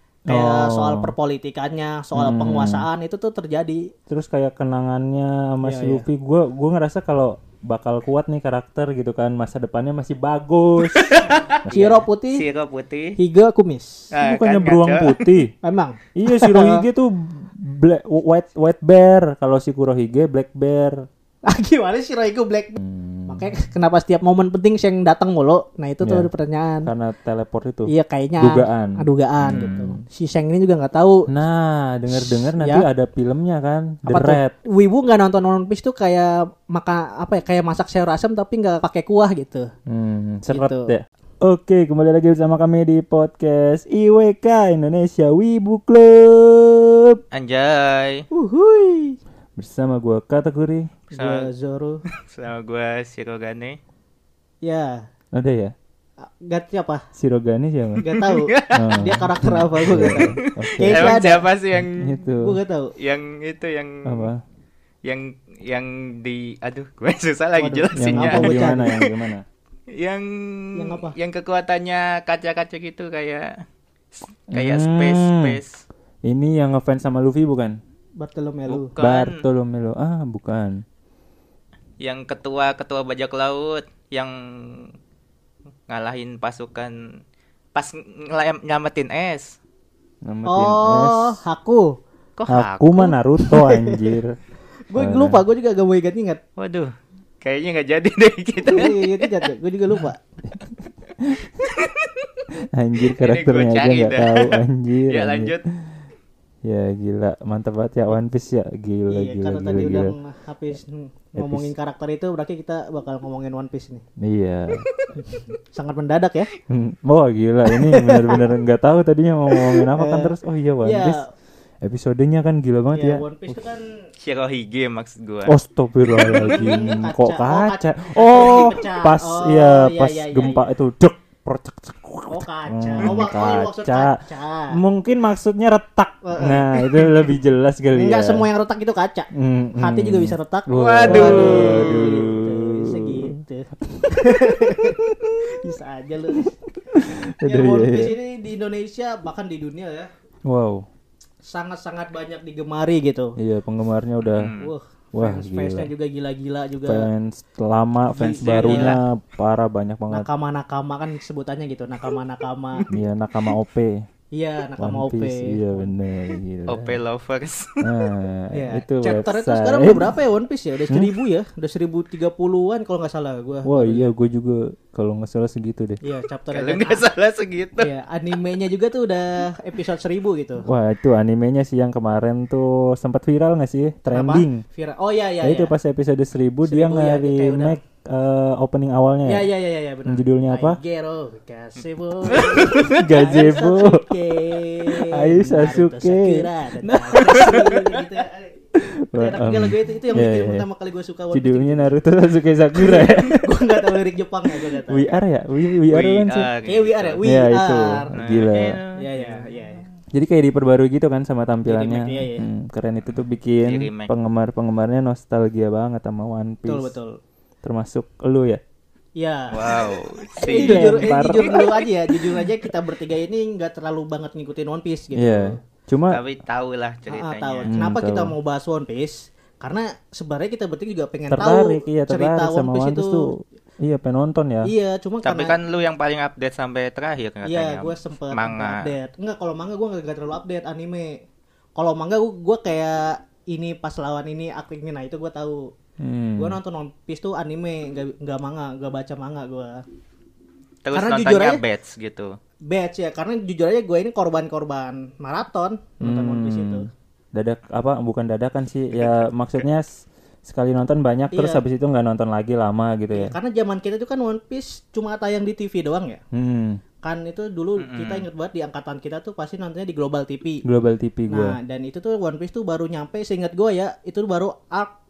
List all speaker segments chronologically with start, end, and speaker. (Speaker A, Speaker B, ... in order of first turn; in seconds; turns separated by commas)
Speaker A: 0.3-1.1, Speaker B: 0.3-3.9, Speaker A: 2.1-2.9, Speaker A: 4.1-11.3, Speaker B: 5.6-6.1, Speaker C: 10.9-13.2, Speaker B: 11.7-12.4, Speaker B: 13.2-14.1, Speaker C: 14.1-15.3, Speaker A: 14.2-15.5, Speaker B: 15.6-16.9, Speaker A: 16.1-21.1, Speaker B: 21.4-26.9, Speaker A: 22.8-23.6, Speaker A: 26.0-26.3, Speaker A: 26.9-29.7, Speaker B: 27.9-31.3, Speaker C: 29.4-29.9, Speaker A: 31.3-34.5, Speaker B: 32.1-32.9, Speaker B: 34.1-39.7, Speaker A: 39.9-47.2, Speaker B: 40.5-40.9, Speaker C: 47.3-48.3, Speaker B: 48.3-49.2, Speaker A: 49.6-50.9, Speaker B: 51.1-52.0, Speaker C: 51.1-51.5, Speaker C: 52.2-53.8, Speaker B: 54.6-55.0, Speaker A: 55.4-55.7, Speaker B: 56.2-57.0, Speaker A: 57.1-58.1, Speaker B: 58.0-61.5, Speaker C: 58.0-59.0, Speaker A: 58.7-61.2, Speaker C: 59.8-62.2, Speaker A: 61.7-62.6, Speaker B: 62.4-62.9, Speaker C: 63.0-64.3, Speaker A: 64.0-64.4, Speaker C: 65.0-69.0, Speaker B: 67.6-69.0, Speaker A: 68.0-69.5, Speaker C: 69.9-73.6, Speaker B: 70.8-71.2, Speaker A: 74.5-75.6, Speaker C: 74.5-75.8, Speaker A: 76.2-77.8, Speaker B: 78.2-78.9, Speaker C: 78.7-79.5, Speaker A: 79.0-80.8, Speaker C: 82.0-84.9, Speaker C: 85.9-87.0, Speaker C: 87.8-89.6, Speaker A: 90.2-91.4, Speaker B: 90.5-92.0, Speaker C: 92.4-93.1, Speaker A: 92.5-94.4, Speaker B: 93.4-94.2, Speaker B: 94.9-96.4, Speaker A: 95.0-95.4, Speaker C: 96.6-99.3, Speaker B: 98.6-100.2, Speaker A: 100.5-101.5, Speaker C: 101.6-102.3, Speaker A: 102.5-105.5, Speaker C: 103.0-105.7, Speaker A: 106.7-110.1, Speaker B: 109.1-114.0, Speaker A: 111.4-111.7, Speaker A: 114.2-114.9, Speaker B: 115.2-116.5, Speaker A: 116.7-121.2, Speaker B: 117.7-118.4, Speaker B: 119.5-121.3, Speaker A: 121.8-123.6, Speaker B: 122.9-124.0, Speaker C: 124.2-125.5, Speaker A: 125.5-134.2, Speaker C: 126.2-126.8, Speaker B: 126.5-130.7, Speaker B: 132.3-134.8, Speaker A: 134.7-138.5, Speaker B: 136.2-137.2, Speaker B: 137.9-146.4, Speaker A: 139.3-143.3, Speaker C: 140.7-142.3, Speaker A: 143.9-145.7, Speaker A: 146.3-148.1, Speaker B: 147.4-150.1, Speaker A: 150.5-150.9, Speaker B: 151.4-153.3, Speaker A: 153.4-154.5, Speaker C: 154.2-154.7, Speaker B: 154.6-157.1, Speaker A: 155.2-155.9, Speaker A: 156.8-160.3, Speaker C: 158.2-159.0, Speaker B: 158.2-159.0, Speaker B: 160.1-162.9, Speaker A: 162.9-164.1, Speaker B: 164.3-165.6, Speaker A: 164.8-166.9, Speaker C: 166.7-168.1, Speaker A: 167.8-170.2, Speaker B: 168.5-174.1, Speaker A: 173.7-176.0, Speaker B: 176.0-177.1, Speaker C: 176.5-177.9, Speaker B: 177.8-180.7, Speaker A: 180.7-184.6, Speaker B: 184.1-185.7, Speaker A: 185.4-189.5, Speaker B: 186.7-187.8, Speaker B: 189.3-198.5, Speaker A: 190.1-190.8, Speaker C: 192.3-193.0, Speaker A: 192.4-194.1, Speaker A: 195.0-197.6, Speaker C: 197.3-198.1, Speaker A: 198.8-200.7, Speaker B: 199.1-201.9, Speaker A: 201.3-203.4, Speaker B: 202.8-205.1, Speaker A: 204.9-206.5, Speaker C: 205.9-207.2, Speaker B: 206.7-208.1, Speaker A: 207.2-208.8, Speaker C: 208.2-209.6, Speaker B: 209.0-209.8, Speaker A: 210.1-216.9, Speaker B: 211.7-212.4, Speaker C: 213.1-214.1, Speaker B: 216.7-217.2, Speaker A: 217.6-218.6, Speaker B: 219.2-225.6, Speaker C: 219.5-221.8, Speaker A: 220.5-221.7, Speaker A: 225.2-226.2, Speaker C: 226.1-227.7, Speaker B: 227.1-233.3, Speaker A: 227.7-228.3, Speaker A: 231.3-234.7, Speaker B: 234.6-235.6, Speaker C: 235.2-238.9, Speaker B: 237.4-241.2, Speaker B: 241.8-245.7, Speaker A: 246.0-246.6, Speaker B: 246.4-249.8, Speaker C: 250.8-252.4, Speaker B: 250.9-251.6, Speaker B: 252.7-256.9, Speaker A: 256.0-263.3, Speaker C: 259.0-259.3, Speaker B: 261.3-261.6, Speaker B: 263.1-266.2, Speaker A: 266.3-266.8, Speaker B: 267.0-270.6, Speaker C: 267.8-268.3, Speaker A: 270.6-271.6, Speaker B: 271.3-274.9